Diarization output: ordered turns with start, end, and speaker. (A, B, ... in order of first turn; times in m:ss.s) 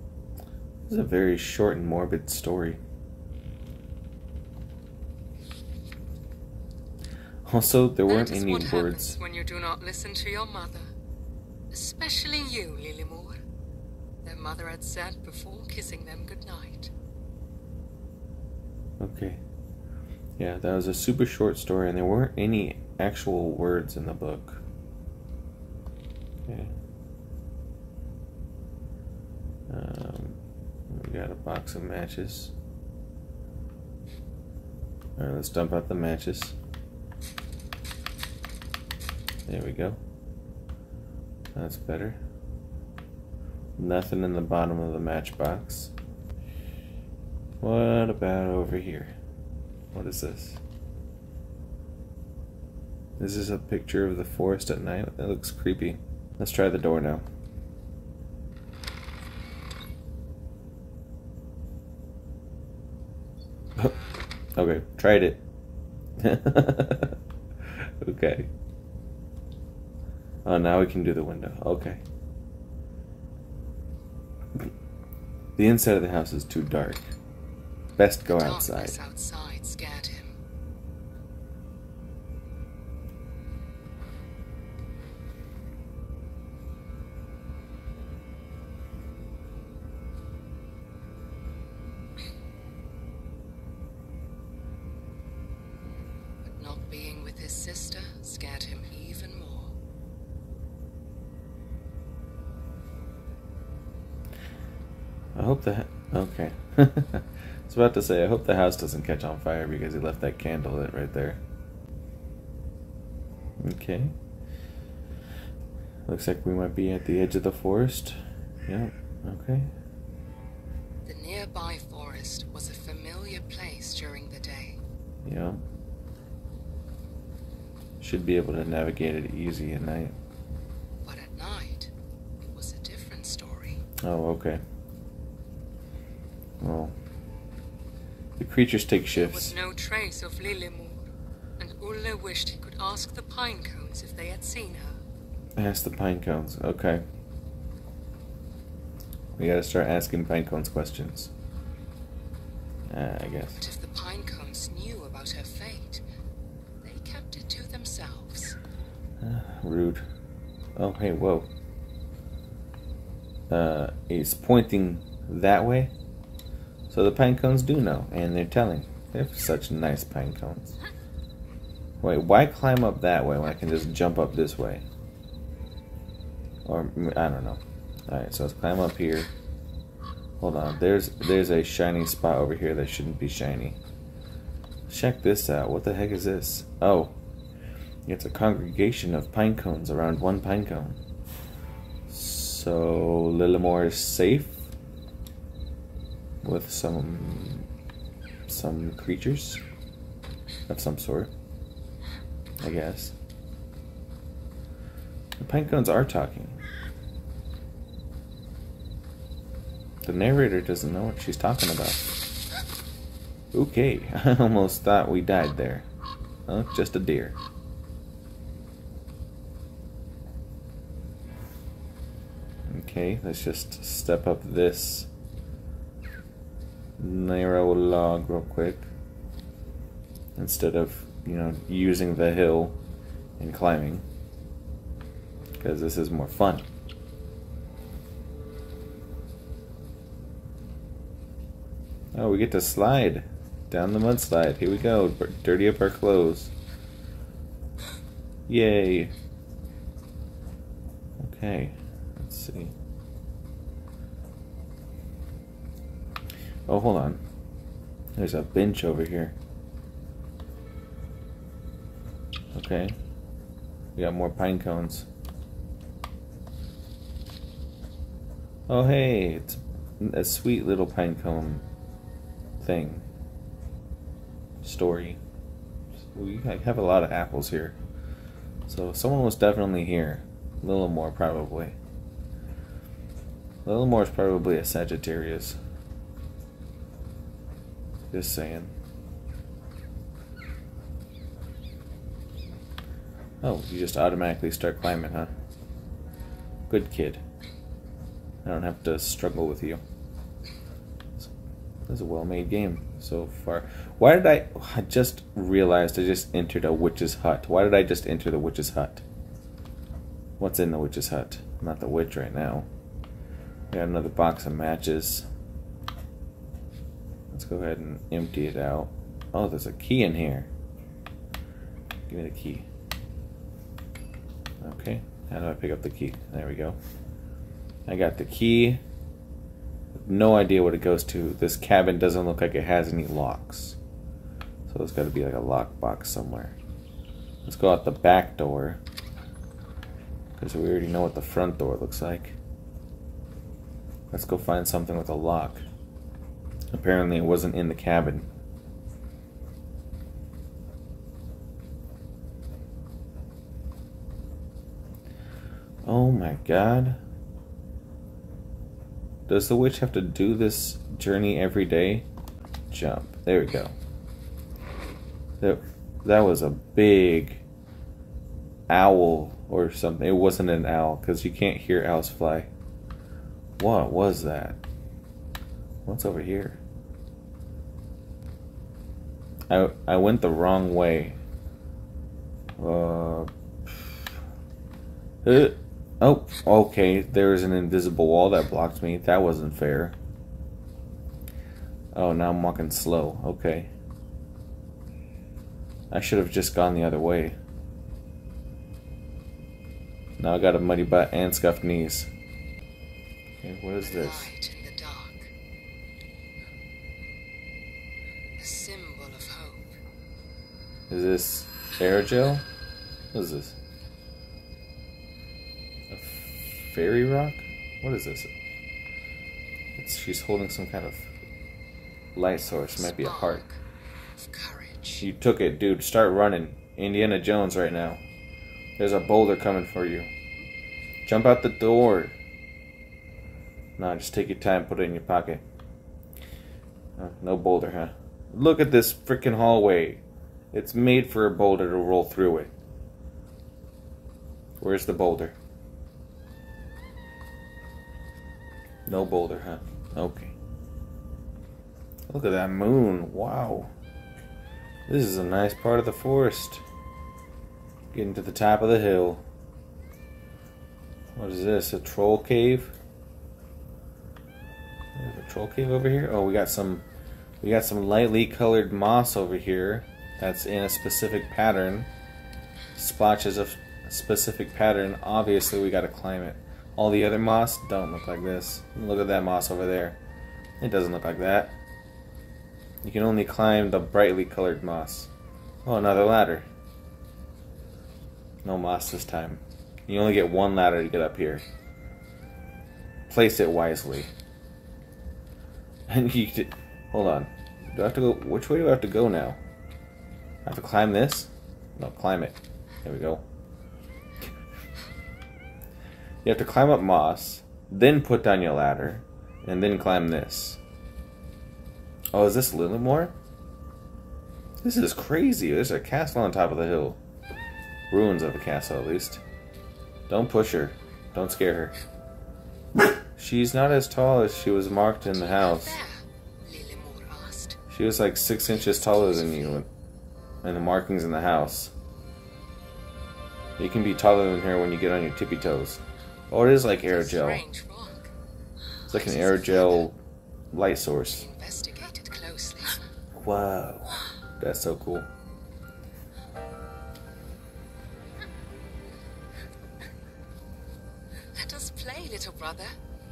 0:00.9-0:02.8 A
0:07.4-0:09.2 A
0:08.1-0:10.9 B
0:11.7-0:13.4 B
0:14.2-0:16.9 B
0:19.0-0:19.4 A
0:20.4-0:24.6 A
0:26.5-0:26.7 A
0:29.7-0:32.5 A
0:35.2-0:36.6 A
0:39.5-0:40.0 A
0:41.6-0:42.2 A
0:43.8-0:45.9 A
0:47.6-0:49.1 A
0:49.9-0:50.6 A
0:53.2-0:57.2 A
1:04.6-1:05.4 A
1:06.2-1:07.2 A
1:07.7-1:08.5 A
1:10.4-1:12.0 A
1:15.6-1:17.1 A
1:18.0-1:19.0 A
1:18.3-1:20.4 B
1:36.4-1:39.8 B
1:45.4-1:51.4 A
1:53.6-1:54.1 A
1:56.1-1:59.7 A
2:01.0-2:04.8 B
2:05.2-2:05.6 A
2:08.0-2:10.2 A
2:11.0-2:13.8 B
2:14.0-2:14.6 A
2:16.6-2:16.9 A
2:18.4-2:19.6 A
2:19.1-2:25.0 B
2:25.6-2:27.0 A
2:29.4-2:31.3 A
2:32.9-2:33.6 A
2:33.6-2:36.0 B
2:36.8-2:38.6 B
2:39.2-2:40.0 A
2:40.8-2:41.5 A
2:43.5-2:45.9 A
2:46.9-2:50.8 A
2:52.0-2:54.8 A
2:56.6-2:59.3 A
3:00.4-3:03.8 A
3:04.9-3:07.1 A
3:08.1-3:11.0 A
3:12.1-3:14.7 A
3:16.4-3:17.7 A
3:18.5-3:19.6 A
3:20.7-3:21.3 A
3:22.6-3:23.2 A
3:25.4-3:26.6 A
3:30.0-3:32.1 A
3:33.5-3:35.9 A
3:36.5-3:37.4 A
3:42.7-3:45.1 A
3:47.0-3:48.9 A
3:50.4-3:52.8 A
3:53.4-3:54.0 A
3:55.6-3:56.7 A
4:02.1-4:06.5 A
4:08.5-4:09.1 A
4:11.2-4:12.7 A
4:16.7-4:17.2 A
4:18.2-4:19.4 A
4:22.5-4:23.0 A
4:24.0-4:25.1 A
4:28.7-4:31.6 A
4:32.6-4:33.0 A
4:34.6-4:35.2 A
4:36.0-4:37.8 A
4:38.7-4:41.8 A
4:43.6-4:45.6 A
4:48.1-4:48.7 A
4:53.4-4:55.3 A
4:56.7-4:57.2 A
4:58.4-4:59.8 A
5:01.9-5:09.0 A
5:10.4-5:12.7 A
5:13.7-5:15.3 A
5:17.3-5:20.5 A
5:22.1-5:22.7 A
5:24.6-5:26.8 A
5:27.9-5:28.8 A
5:30.0-5:33.8 A
5:34.7-5:36.6 A
5:37.4-5:38.8 A
5:40.4-5:42.4 A
5:44.1-5:45.6 A
5:46.7-5:48.3 A
5:55.8-5:57.0 A
5:59.3-6:02.1 A
6:02.7-6:03.7 A
6:05.4-6:07.4 A
6:08.7-6:12.5 A
6:13.6-6:14.6 A
6:15.8-6:16.6 A
6:19.5-6:21.2 A
6:22.6-6:24.1 A
6:25.2-6:30.0 A
6:31.9-6:33.7 A
6:35.9-6:37.4 A
6:40.2-6:42.1 A
6:43.4-6:44.3 A
6:43.8-6:45.3 B
6:48.4-6:49.7 B
6:50.9-6:52.5 A
6:53.1-6:53.6 A
6:55.9-6:58.3 A
6:59.8-7:01.1 A
7:02.2-7:03.4 A
7:02.8-7:03.6 B
7:04.2-7:05.0 B
7:05.0-7:08.0 A
7:08.8-7:10.1 A
7:11.0-7:12.2 A
7:13.8-7:15.4 A
7:17.0-7:22.5 A
7:24.6-7:25.4 A
7:28.9-7:30.4 A
7:32.1-7:33.7 A
7:34.9-7:36.6 A
7:37.9-7:39.2 A
7:41.2-7:42.8 A
7:45.0-7:46.8 A
7:47.4-7:51.9 A
7:52.8-8:00.0 A
8:00.6-8:01.6 A
8:02.8-8:05.1 A
8:05.6-8:06.5 A
8:08.4-8:11.4 A
8:13.1-8:14.1 A
8:15.9-8:19.4 A
8:20.4-8:23.2 A
8:26.2-8:30.6 A
8:32.1-8:33.1 A
8:34.6-8:37.0 A
8:37.9-8:39.2 A
8:40.1-8:41.7 A
8:43.2-8:45.8 A
8:45.1-8:47.6 B
8:47.7-8:49.7 A
8:49.1-8:49.6 B
8:50.4-8:51.7 A
8:53.6-8:57.4 A
8:56.8-8:58.1 B
8:58.9-8:59.9 B
8:58.9-9:00.0 A
9:00.5-9:01.3 A
9:01.1-9:02.8 B
9:03.1-9:05.1 A
9:11.4-9:12.8 B